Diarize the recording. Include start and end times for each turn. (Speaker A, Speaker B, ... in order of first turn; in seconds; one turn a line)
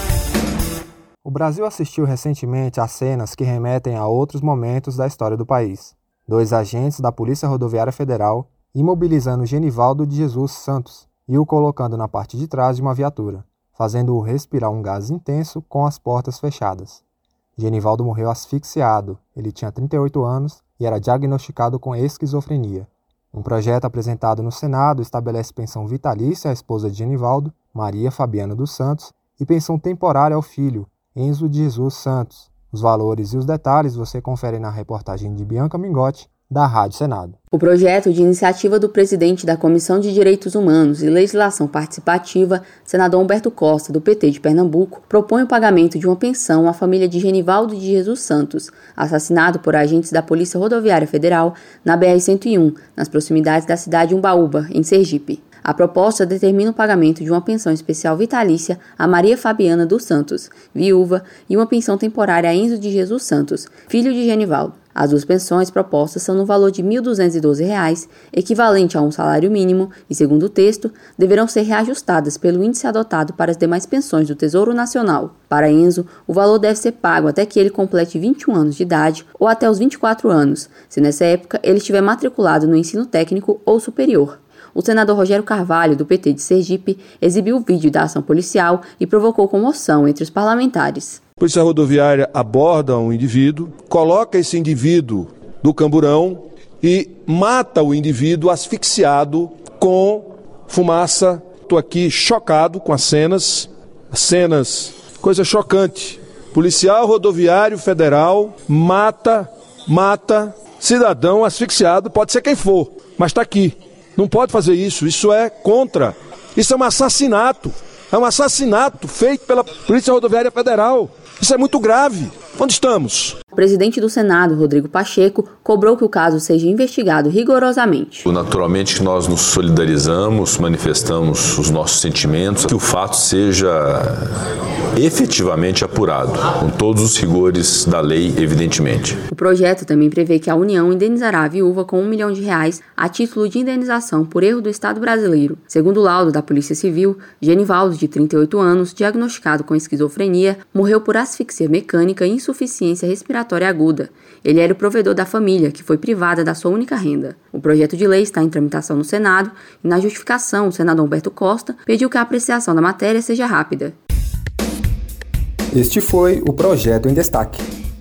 Speaker A: 1.2-17.0
Speaker A: 17.6-37.4
Speaker B: 37.5-91.2
Speaker C: 91.4-123.3
Speaker B: 123.5-128.3
Speaker D: 128.3-134.3
Speaker D: 134.9-139.2
Speaker B: 139.3-163.9
Speaker A: 165.7-167.6